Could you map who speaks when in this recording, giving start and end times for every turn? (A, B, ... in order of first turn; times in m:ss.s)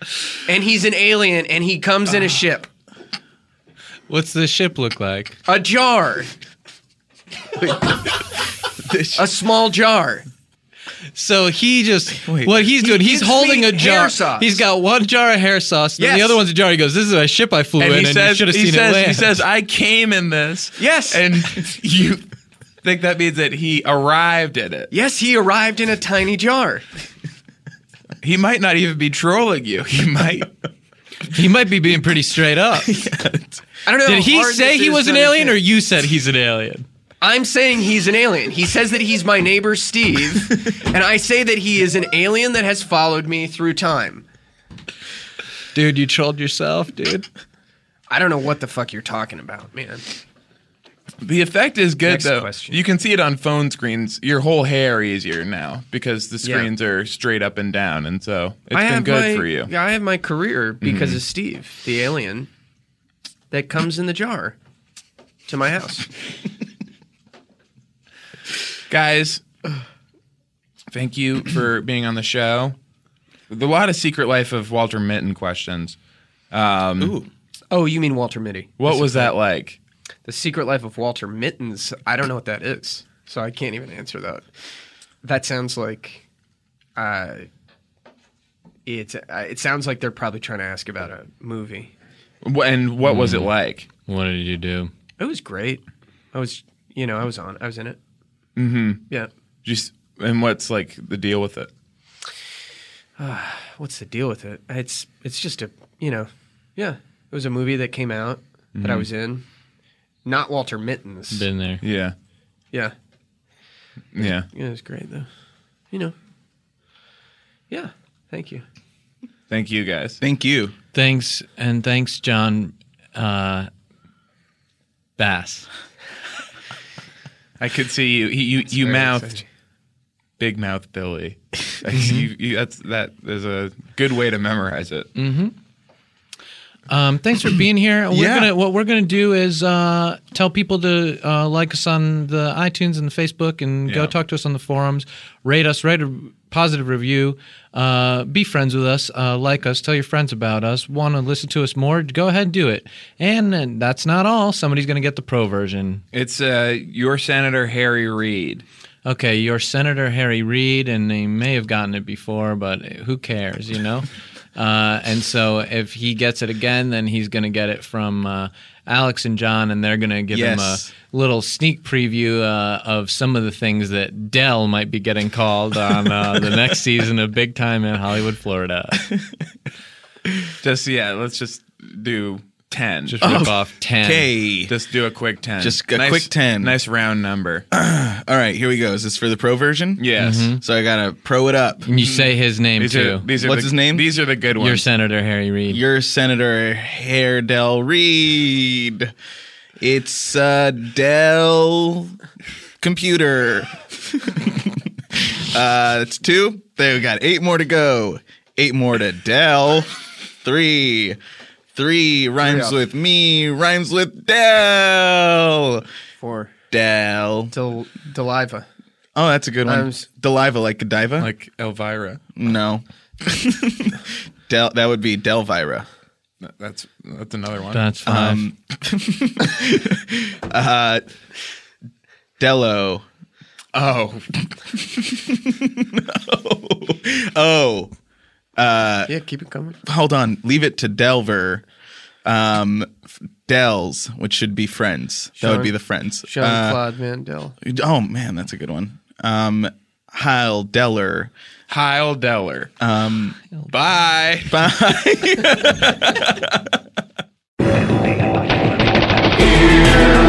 0:00.5-0:02.7 A
0:04.1-0:05.4 B
0:05.5-0:06.3 A
0:07.6-0:09.2 C
0:09.2-0:10.3 A
0:11.2-0:19.3 B
0:12.2-0:12.7 C
0:12.8-0:14.6 A
0:16.0-0:16.4 A
0:17.8-0:22.3 D
0:20.8-0:21.2 A
0:22.8-0:24.9 D
0:24.9-0:26.8 A
0:28.2-0:30.5 D
0:31.3-0:33.0 B
0:32.8-0:33.6 C
0:33.9-0:35.6 A
0:34.0-0:36.8 B
0:37.2-0:44.3 A
0:45.8-0:47.3 B
0:48.1-0:50.0 A
0:51.2-0:59.7 D
0:52.0-0:52.8 A
0:56.4-0:56.7 A
0:58.7-1:02.5 A
1:00.8-1:01.2 D
1:03.5-1:04.6 A
1:05.5-1:06.1 A
1:08.9-1:09.4 D
1:10.9-1:12.8 D
1:13.5-1:16.0 D
1:16.5-1:17.2 D
1:17.0-1:17.3 C
1:17.7-1:19.3 A
1:18.8-1:19.8 D
1:20.3-1:24.5 A
1:25.2-1:26.2 A
1:27.0-1:27.5 A
1:28.9-1:31.9 A
1:32.4-1:33.9 D
1:33.0-1:33.5 B
1:34.1-1:34.9 B
1:35.2-1:38.0 A
1:38.6-1:39.0 D
1:39.6-1:41.7 D
1:43.2-1:49.4 A
1:48.8-1:49.1 D
1:50.2-1:51.5 A
1:51.3-1:51.8 B
1:51.8-1:52.2 D
1:54.1-1:54.5 D
1:54.5-1:55.3 A
1:57.7-1:58.6 A
1:59.5-2:00.2 D
2:00.2-2:00.7 C
2:00.9-2:03.7 B
2:05.2-2:05.7 B
2:07.6-2:09.4 D
2:08.7-2:09.5 A
2:10.4-2:15.1 D
2:11.9-2:12.3 B
2:15.2-2:15.5 B
2:16.9-2:36.0 B
2:18.1-2:18.5 C
2:23.9-2:24.1 D
2:36.1-2:38.6 D
2:39.0-2:59.1 B
2:50.3-2:50.9 C
2:59.0-2:59.3 C
3:00.6-3:03.5 D
3:03.1-3:04.3 B
3:03.2-3:04.7 C
3:04.7-3:07.6 D
3:05.6-3:06.8 C
3:07.7-3:12.0 C
3:10.0-3:10.5 D
3:10.2-3:10.6 B
3:11.9-3:13.3 B
3:12.0-3:14.8 D
3:13.4-3:14.1 C
3:14.6-3:15.8 B
3:15.7-3:19.1 C
3:19.8-3:22.2 C
3:22.8-3:31.2 C
3:31.8-3:35.9 C
3:32.4-3:32.8 A
3:36.2-3:36.5 A
3:36.7-3:37.5 C
3:37.5-3:38.7 A
3:39.2-3:41.3 C
3:39.7-3:40.0 A
3:41.2-3:42.2 D
3:42.4-3:45.9 C
3:46.4-3:47.9 D
3:47.7-3:48.5 B
3:48.0-3:51.0 C
3:52.4-3:53.0 C
3:53.7-3:54.3 D
3:54.7-3:57.9 C
3:58.6-3:59.1 C
3:59.1-3:59.8 A
3:59.8-4:01.6 C
4:02.2-4:06.8 C
4:05.4-4:05.7 A
4:06.3-4:07.6 A
4:07.6-4:11.3 C
4:11.7-4:12.7 D
4:12.8-4:13.4 C
4:13.7-4:14.7 D
4:14.5-4:16.8 C